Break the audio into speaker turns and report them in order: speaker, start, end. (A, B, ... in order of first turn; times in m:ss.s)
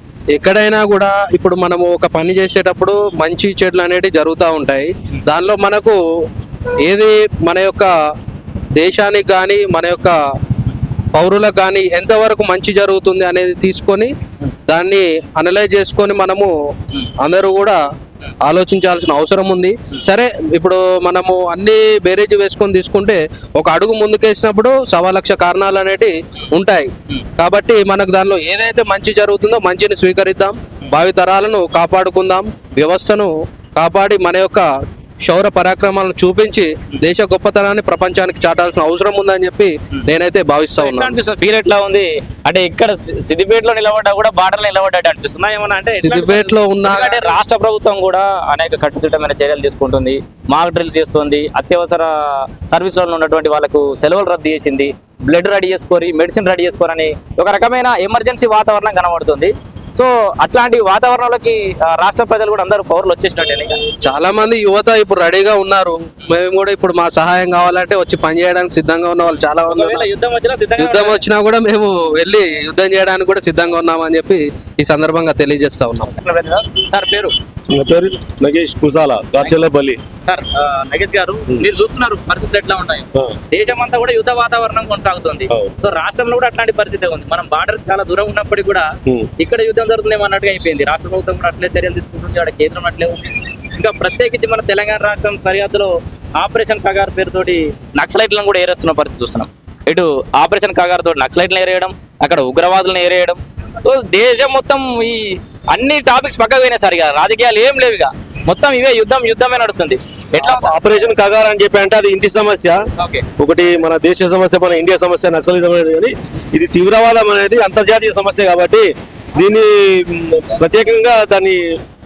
0:00.4-0:06.0 A
0:06.8-0:07.9 A
0:08.8-0:10.2 A
0:11.1-0:14.1 A
0:14.7-0:16.5 A
0:17.2-0:17.8 A
0:18.4-0:34.7 A
0:35.2-0:41.1 A
0:40.8-1:03.8 B
0:46.0-0:47.2 A
1:04.0-1:10.1 A
1:09.7-1:11.2 B
1:10.8-1:16.1 A
1:16.1-1:17.4 B
1:17.7-1:20.0 C
1:20.2-1:28.9 B
1:29.4-1:50.7 B
1:50.4-1:52.8 C
1:53.0-1:53.2 B
1:53.4-2:01.6 C